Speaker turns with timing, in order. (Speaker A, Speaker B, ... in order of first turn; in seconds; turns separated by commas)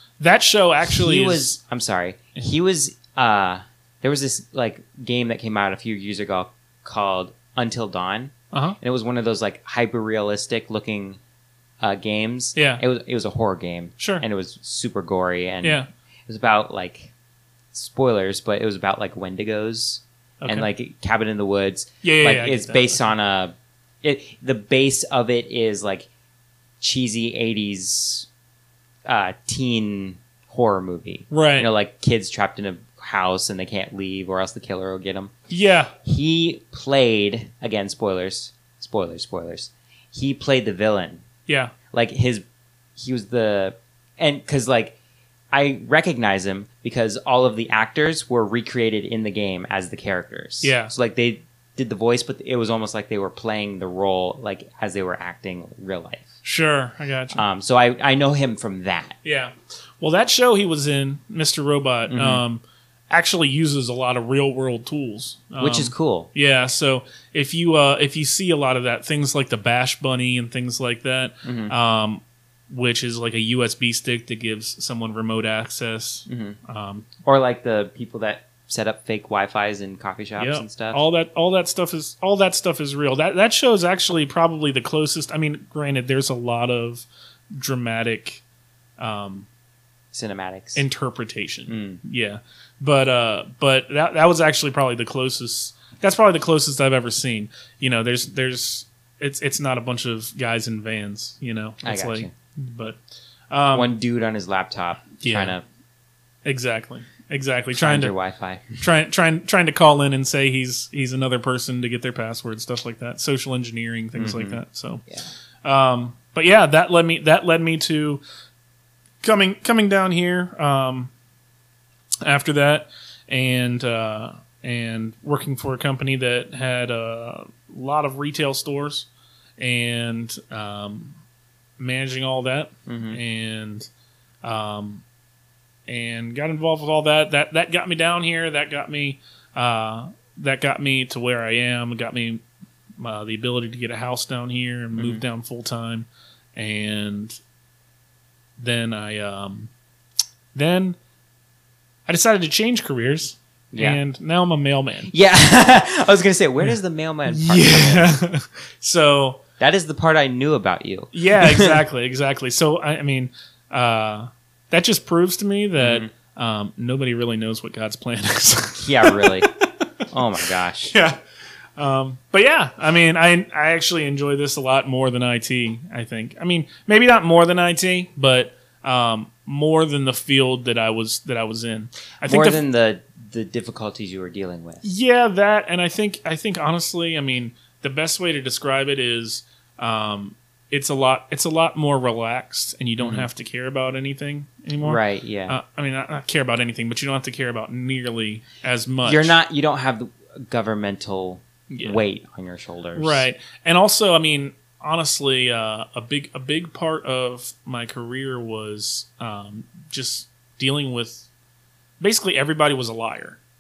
Speaker A: 0.2-1.5, Speaker B: 0.9-11.2, Speaker A: 8.5-8.8, Speaker B: 11.8-17.1, Speaker A: 12.6-12.8, Speaker A: 14.0-14.2, Speaker A: 15.6-15.9, Speaker B: 17.7-26.1, Speaker A: 20.4-20.7, Speaker A: 22.0-23.0, Speaker B: 26.8-28.3, Speaker B: 29.1-35.3, Speaker A: 31.3-31.7, Speaker A: 35.5-35.9, Speaker B: 36.0-41.2, Speaker A: 41.5-41.7, Speaker B: 41.9-42.4, Speaker B: 43.0-45.0, Speaker B: 45.5-56.3, Speaker A: 50.6-50.9, Speaker A: 56.4-57.4, Speaker B: 57.3-59.2, Speaker A: 59.2-77.1, Speaker B: 62.1-62.4, Speaker B: 65.6-66.3, Speaker B: 71.4-71.7, Speaker B: 76.3-76.6, Speaker B: 77.2-81.0, Speaker A: 80.4-88.4, Speaker A: 89.0-89.5, Speaker B: 90.1-90.8, Speaker A: 90.8-103.0, Speaker B: 91.7-92.0, Speaker B: 101.8-102.3, Speaker A: 103.5-103.9, Speaker B: 103.7-105.6, Speaker A: 105.2-105.6, Speaker A: 106.5-108.1, Speaker B: 107.8-108.8, Speaker A: 108.8-115.0, Speaker B: 114.2-115.3, Speaker A: 115.6-118.2, Speaker A: 119.2-121.1, Speaker A: 122.2-131.2, Speaker A: 131.8-133.9, Speaker B: 132.9-133.2, Speaker A: 134.4-135.0, Speaker A: 135.9-142.4, Speaker A: 143.0-147.4, Speaker B: 145.0-145.2, Speaker A: 148.6-149.7, Speaker A: 150.5-151.0, Speaker A: 152.1-155.1, Speaker B: 153.7-154.0, Speaker B: 155.1-158.1, Speaker A: 157.3-159.4, Speaker B: 159.6-161.8, Speaker A: 161.1-169.7, Speaker B: 165.8-166.1, Speaker B: 168.8-169.5, Speaker B: 170.1-170.9, Speaker A: 170.9-171.2, Speaker A: 171.8-182.6, Speaker B: 182.3-184.9, Speaker A: 184.8-199.4, Speaker B: 193.0-193.3, Speaker B: 194.8-195.6, Speaker B: 199.0-203.3, Speaker A: 201.7-202.0, Speaker A: 202.9-211.3, Speaker A: 212.0-213.4